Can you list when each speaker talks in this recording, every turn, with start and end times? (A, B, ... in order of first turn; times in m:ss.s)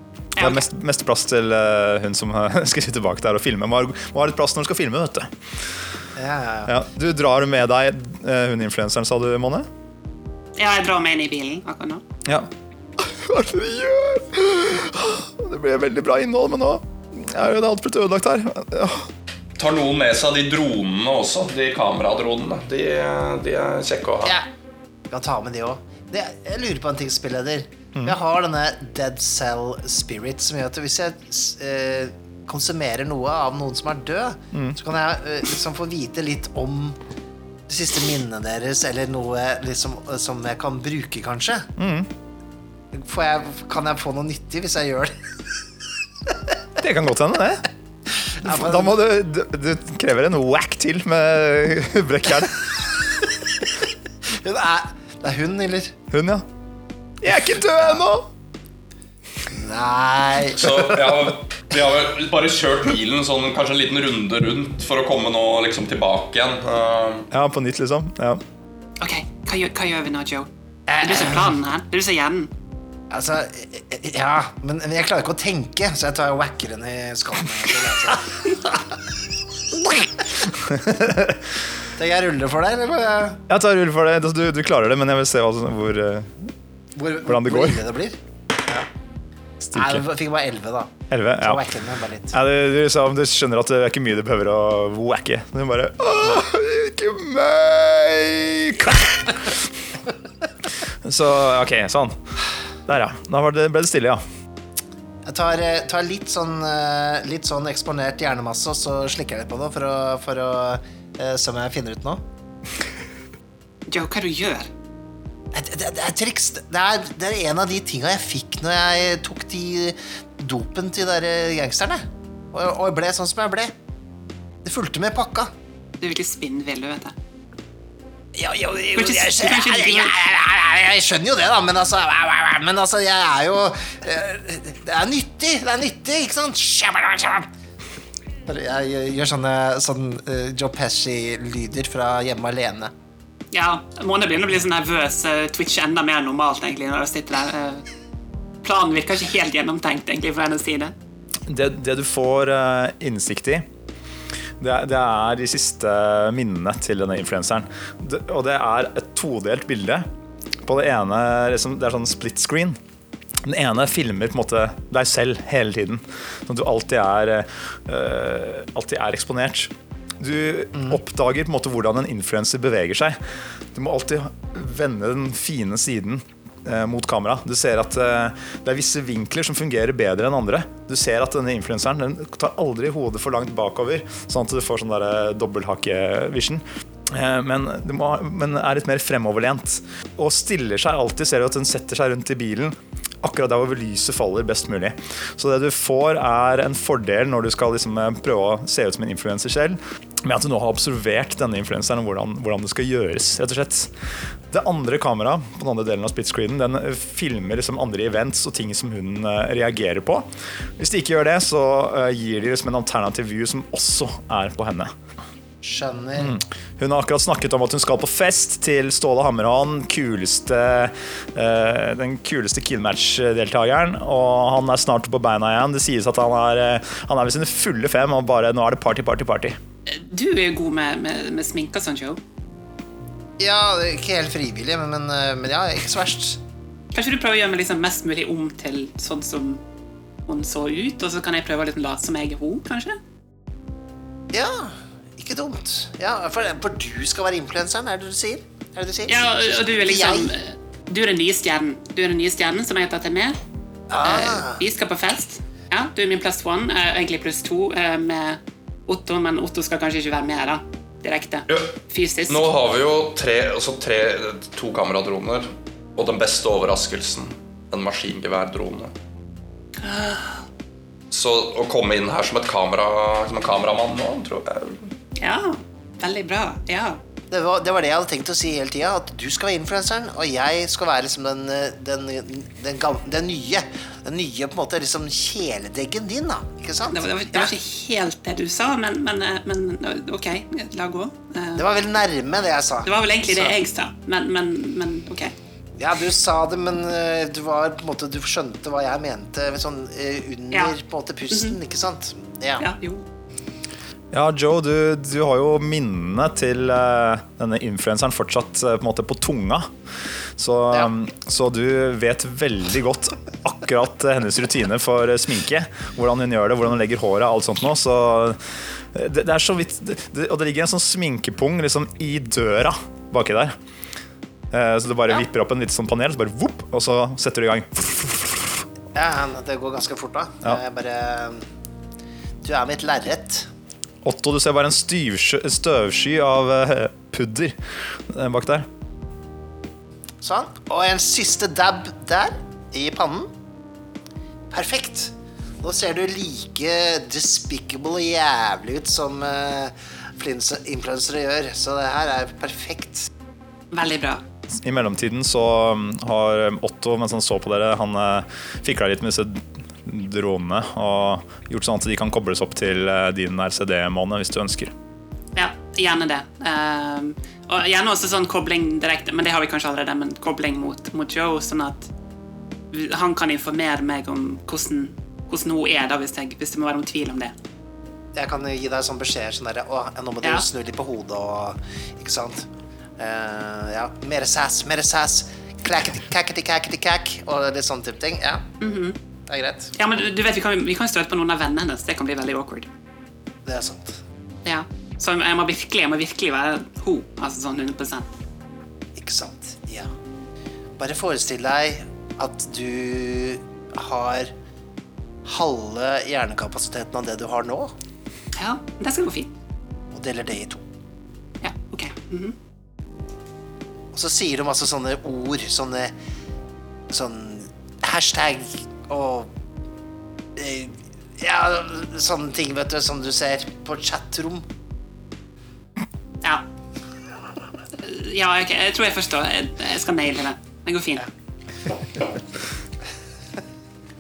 0:00.3-0:00.7 A
0:00.4-0:05.3 B
0:06.2-0:06.7 C
0:06.7-0:09.7 B
0:10.6-0:12.0 A
0:12.2-0:19.1 B
0:19.6-0:24.4 D
0:25.1-0:37.0 C
0:34.5-0:34.8 B
0:37.7-0:41.7 C
0:41.8-0:42.1 B
0:42.9-0:45.1 C
0:46.8-0:47.6 B
0:48.4-0:49.0 C
0:48.4-0:52.9 B
0:54.3-0:56.0 C
0:56.1-0:56.4 B
0:57.2-0:58.3 B
0:59.5-1:00.7 C
1:00.5-1:07.3 D
1:07.3-1:08.4 B
1:09.0-1:10.5 A
1:10.9-1:11.5 C
1:11.0-1:12.5 A
1:13.1-1:18.8 C
1:20.5-1:21.4 B
1:22.0-1:23.4 C
1:23.5-1:26.4 B
1:27.0-1:28.8 C
1:27.3-1:27.8 B
1:29.6-1:32.4 C
1:29.7-1:30.0 B
1:31.1-1:31.6 B
1:32.3-1:39.7 B
1:41.0-1:42.2 B
1:42.9-1:44.2 B
1:45.2-1:52.2 C
1:53.9-1:54.7 A
1:55.5-2:03.7 C
2:04.6-2:05.5 C
2:06.0-2:07.2 A
2:08.4-2:17.5 C
2:09.0-2:10.2 A
2:18.5-2:22.9 C
2:23.5-2:27.9 A
2:28.6-2:30.9 A
2:31.5-2:33.7 B
2:34.6-2:40.1 B
2:40.6-2:42.8 B
2:43.4-2:53.2 B
2:53.7-3:23.9 B
3:24.5-3:30.3 B
3:30.8-3:34.9 B
3:35.6-3:36.4 C
3:36.2-3:49.6 B
3:49.9-3:52.2 A
3:53.4-3:56.4 C
3:56.9-3:59.6 A
4:00.3-4:03.0 A
4:04.3-4:10.3 C
4:09.1-4:13.4 A
4:13.9-4:14.6 C
4:14.0-4:22.5 A
4:21.5-4:21.7 D
4:22.3-4:28.9 D
4:29.8-4:30.4 A
4:31.1-4:34.9 D
4:35.2-4:37.0 A
4:37.3-4:47.5 C
4:46.9-4:51.7 A
4:51.6-4:53.6 C
4:52.8-4:55.3 A
4:55.8-5:02.7 C
5:02.6-5:03.0 A
5:04.1-5:09.7 B
5:10.4-5:18.4 B
5:18.9-5:23.6 B
5:24.5-5:28.7 B
5:28.9-5:31.5 C
5:32.4-5:33.5 C
5:34.0-5:37.6 B
5:38.1-5:38.7 B
5:40.2-5:43.3 C
5:44.5-5:53.1 C
5:53.7-5:54.2 A
5:54.6-6:04.7 B
6:05.4-6:11.9 A
6:12.7-6:17.4 A
6:18.2-6:22.5 C
6:23.0-6:28.5 C
6:28.6-6:29.0 A
6:29.3-6:29.8 C
6:29.8-6:32.7 A
6:33.4-6:34.0 C
6:34.4-6:38.2 A
6:39.0-6:39.9 C
6:40.8-6:44.3 C
6:45.2-6:47.7 C
6:48.4-6:49.3 A
6:49.9-6:50.6 C
6:51.4-6:52.4 A
6:53.9-6:55.9 C
6:56.9-6:59.3 C
7:00.4-7:04.5 C
7:07.8-7:11.1 A